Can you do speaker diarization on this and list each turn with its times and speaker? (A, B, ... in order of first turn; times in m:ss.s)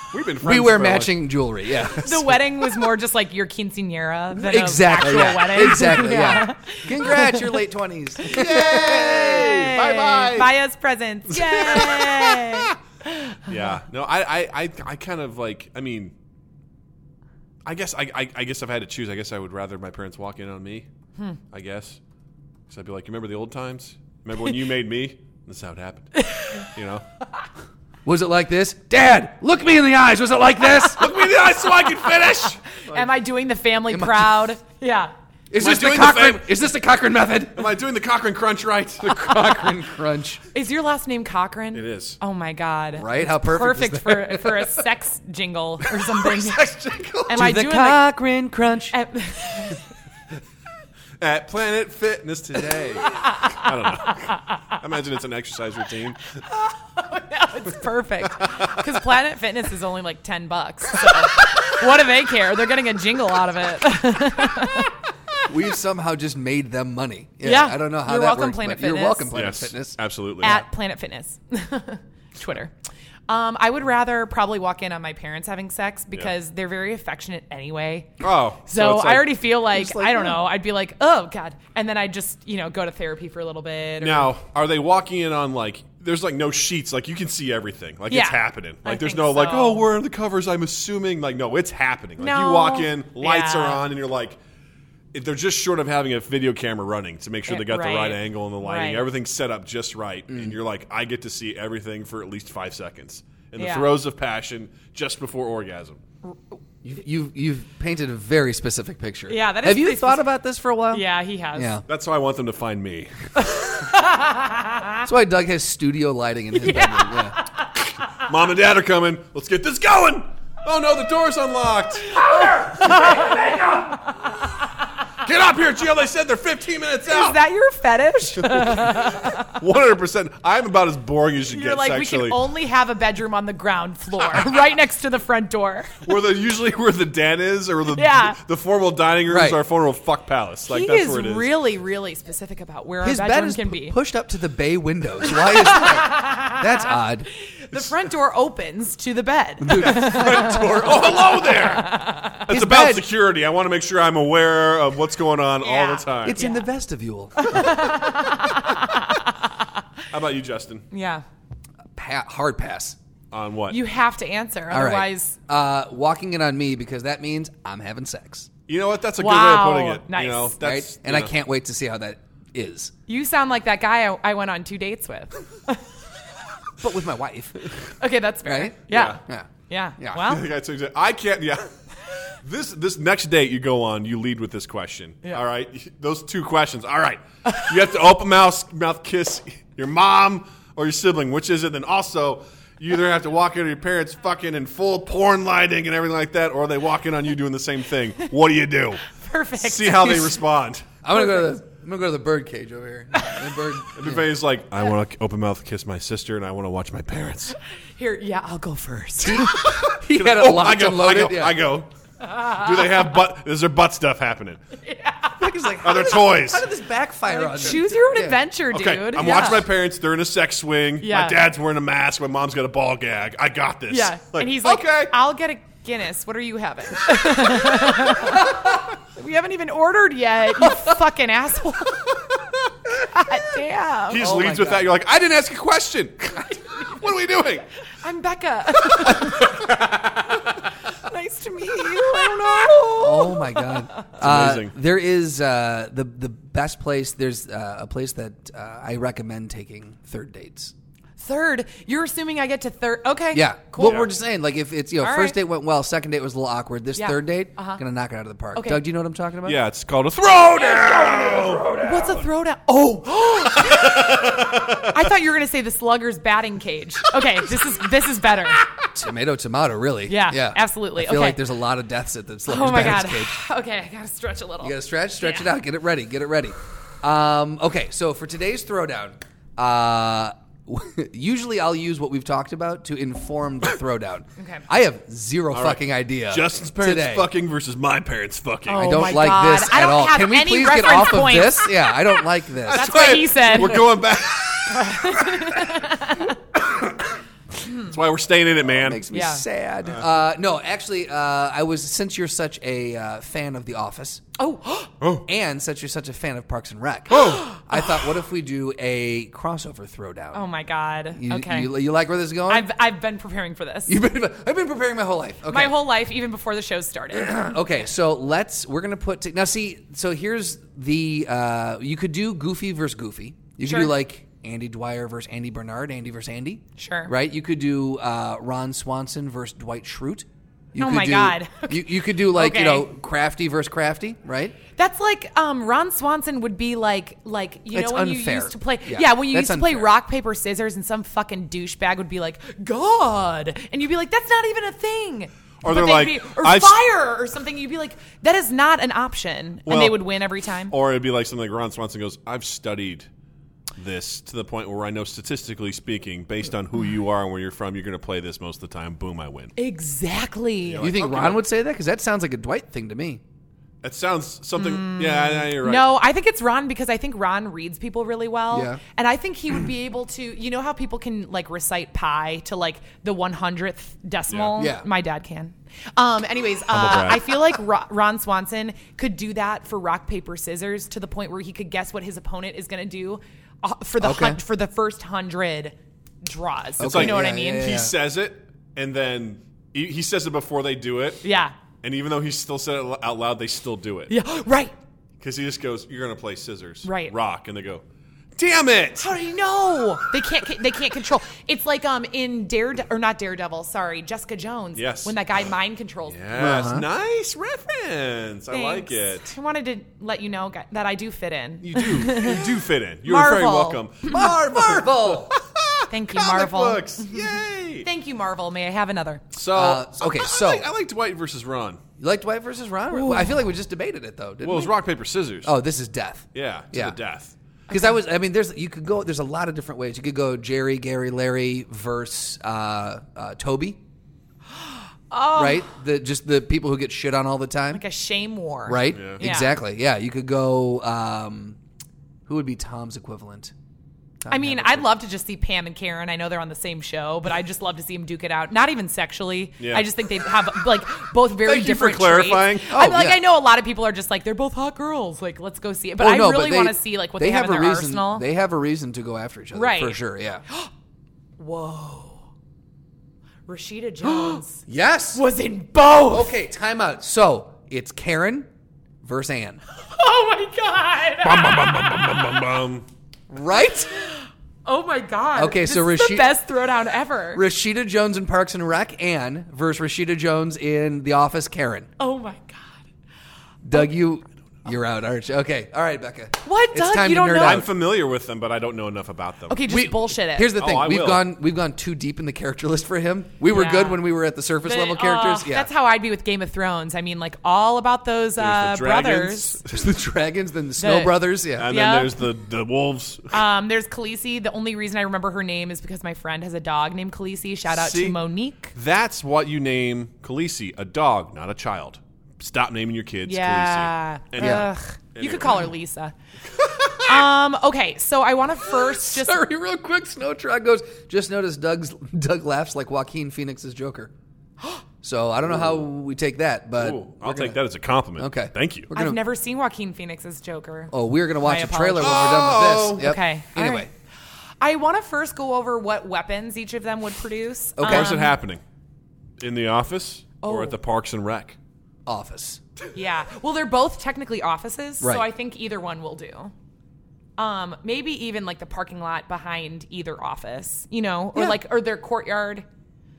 0:00.1-0:01.3 A
0:00.4-0:02.4 B
0:01.9-0:07.6 C
0:04.3-0:09.7 B
0:08.2-0:13.8 C
0:08.3-0:10.5 A
0:11.3-0:12.8 A
0:13.5-0:16.1 A
0:17.6-0:20.9 A
0:21.5-0:22.0 A
0:22.7-0:27.0 A
0:26.2-0:26.6 C
0:28.0-0:31.2 B
0:30.8-0:33.1 A
0:31.8-0:32.4 B
0:32.9-0:35.1 C
0:33.9-0:34.5 B
0:35.5-0:37.7 B
0:35.6-0:36.5 A
0:37.6-0:39.4 A
0:39.0-0:40.4 B
0:40.5-0:46.6 C
0:41.7-0:42.2 A
0:43.0-0:44.8 B
0:46.6-0:48.9 B
0:47.3-0:48.0 C
0:48.9-0:49.9 C
0:51.2-0:56.4 A
0:53.1-0:54.6 C
0:56.5-1:04.9 C
0:58.4-0:58.8 A
1:05.5-1:10.0 B
1:07.4-1:09.3 C
1:09.3-1:10.6 A
1:10.4-1:12.7 C
1:13.3-1:24.3 C
1:18.2-1:19.3 A
1:19.7-1:20.4 B
1:24.0-1:34.4 A
1:28.1-1:29.9 C
1:32.2-1:33.8 C
1:35.1-1:46.0 A
1:37.5-1:39.1 C
1:40.3-1:40.6 B
1:43.6-1:43.9 C
1:46.8-1:51.8 B
1:49.3-1:50.3 C
1:50.9-1:51.8 C
1:51.9-1:53.3 A
1:53.4-1:55.0 C
1:55.0-1:57.4 B
1:56.5-1:57.9 C
1:58.2-2:03.7 A
2:02.1-2:04.0 C
2:05.2-2:07.4 A
2:07.0-2:09.6 C
2:08.4-2:12.5 A
2:11.5-2:16.1 C
2:16.0-2:21.5 A
2:17.9-2:18.4 C
2:19.3-2:19.6 B
2:20.7-2:24.0 C
2:23.0-2:27.3 B
2:25.3-2:32.4 C
2:29.7-2:36.4 A
2:29.7-2:30.5 B
2:32.5-2:33.0 B
2:35.6-2:36.7 C
2:36.2-2:37.9 B
2:37.4-2:39.5 C
2:40.1-2:40.9 A
2:40.9-2:41.2 C
2:42.0-2:43.0 B
2:43.3-2:43.8 A
2:43.7-2:45.4 C
2:44.7-2:48.5 B
2:48.7-2:51.3 A
2:49.2-2:50.6 C
2:50.6-2:52.9 B
2:53.1-2:55.8 C
2:56.8-2:57.6 B
2:58.0-3:00.4 C
2:58.4-3:00.3 B
2:58.9-2:59.2 A
3:00.2-3:01.7 A
3:02.3-3:19.0 A
3:19.1-3:20.4 C
3:19.6-3:20.9 A
3:21.0-3:24.3 B
3:21.1-3:21.5 C
3:23.9-3:27.6 A
3:28.0-3:29.7 C
3:29.2-3:31.6 B
3:29.3-3:34.6 A
3:32.4-3:32.6 C
3:34.8-3:35.8 C
3:35.4-3:38.4 B
3:35.8-3:36.6 A
3:37.3-3:39.7 C
3:38.7-3:45.2 A
3:41.0-3:41.4 C
3:43.9-3:52.2 C
3:53.0-3:54.3 C
3:54.1-3:57.7 A
3:54.2-3:54.9 B
3:56.7-3:57.0 C
3:58.0-3:59.7 C
3:58.9-4:00.2 A
4:00.9-4:04.1 C
4:03.0-4:10.7 B
4:04.2-4:04.7 A
4:11.2-4:14.0 C
4:13.3-4:19.6 B
4:13.8-4:14.1 A
4:15.0-4:15.4 C
4:17.0-4:17.8 C
4:18.5-4:18.8 C
4:19.4-4:22.2 A
4:21.8-4:28.7 C
4:23.5-4:25.0 A
4:28.9-4:33.4 B
4:30.1-4:31.4 C
4:32.5-4:35.6 C
4:34.6-4:47.3 B
4:44.4-4:44.6 C
4:45.5-4:49.1 A
4:48.7-4:51.9 C
4:48.7-4:53.9 B
4:52.6-4:55.9 A
4:52.7-4:53.9 C
4:54.7-4:56.4 C
4:56.6-4:57.1 A
4:57.7-4:59.0 A
4:58.7-5:04.2 B
4:59.1-4:59.4 C
5:04.4-5:04.9 C
5:05.0-5:05.3 A
5:05.3-5:10.4 B
5:07.1-5:07.4 A
5:07.2-5:07.6 C
5:10.3-5:11.8 C
5:11.2-5:12.7 B
5:12.5-5:13.9 C
5:13.9-5:15.8 B
5:15.5-5:17.6 C
5:17.1-5:34.6 B
5:23.6-5:23.9 C
5:26.8-5:27.1 C
5:30.8-5:32.9 C
5:34.8-5:50.7 C
5:37.7-5:39.9 B
5:45.6-5:46.8 A
5:49.7-5:53.1 A
5:53.8-5:59.5 A
5:59.6-6:00.9 C
6:00.6-6:01.4 A
6:00.8-6:03.2 B
6:03.8-6:05.9 A
6:04.6-6:27.8 C
6:08.5-6:08.8 B
6:14.3-6:14.7 A
6:14.6-6:14.9 B
6:16.7-6:17.4 A
6:24.0-6:24.4 B
6:26.8-6:27.9 B
6:26.8-6:31.2 A
6:31.2-6:31.6 C
6:31.8-6:34.1 A
6:34.1-6:34.7 C
6:35.2-6:37.8 A
6:36.8-6:37.1 C
6:38.4-6:39.3 A
6:39.0-6:46.2 C
6:44.8-6:45.2 A
6:46.1-6:49.3 A
6:46.3-6:46.9 B
6:48.5-6:52.5 C
6:51.6-6:57.9 A
6:53.0-6:54.1 C
6:54.1-6:55.4 B
6:55.9-6:57.3 C
6:57.8-6:59.2 C
6:59.3-7:01.8 A
6:59.5-7:00.7 B
7:02.0-7:04.7 B
7:02.9-7:03.4 C
7:04.4-7:05.5 A
7:05.4-7:07.0 B
7:06.3-7:07.4 A
7:07.7-7:13.8 B
7:14.6-7:15.7 C
7:15.4-7:17.8 B
7:17.7-7:19.6 C
7:18.7-7:21.6 B
7:18.9-7:19.2 A
7:22.3-7:23.5 B
7:24.2-7:24.9 B
7:24.3-7:38.3 C
7:29.6-7:29.9 A
7:31.4-7:32.8 A
7:32.7-7:33.2 B
7:36.0-7:40.4 B
7:39.5-7:40.7 C
7:41.4-7:42.2 C
7:43.5-7:46.4 C
7:44.2-7:45.2 B
7:46.1-7:48.5 B
7:49.0-7:49.6 B
7:49.8-7:52.1 C
7:51.2-7:52.9 A
7:53.3-7:53.9 B
7:53.9-7:57.4 C
7:55.4-7:56.4 B
7:57.3-8:01.9 B
8:02.0-8:02.8 C
8:03.6-8:07.7 B
8:06.4-8:07.7 C
8:07.4-8:09.6 A
8:09.5-8:10.5 C
8:09.7-8:15.7 B
8:10.6-8:11.3 A
8:13.5-8:14.1 C
8:14.6-8:19.6 C
8:18.4-8:19.7 A
8:19.7-8:21.7 B
8:20.8-8:22.2 C
8:21.6-8:23.4 A
8:23.3-8:28.7 C
8:27.7-8:28.2 A
8:28.7-8:35.7 A
8:33.3-8:36.2 C
8:34.4-8:34.7 B
8:36.5-8:37.3 A
8:37.0-8:39.4 C
8:38.7-8:44.1 B
8:45.0-8:47.6 B
8:46.8-8:48.9 A
8:48.2-8:49.2 B
8:48.9-8:53.9 C
8:50.9-8:53.9 B
8:52.0-8:53.1 A
8:54.6-8:58.4 C
8:57.8-8:58.1 B
8:57.8-8:58.6 A
8:59.4-9:01.6 A
9:00.4-9:00.8 C
9:02.1-9:02.6 B
9:02.9-9:06.5 C
9:05.0-9:05.3 B
9:07.4-9:12.6 C
9:11.3-9:11.6 B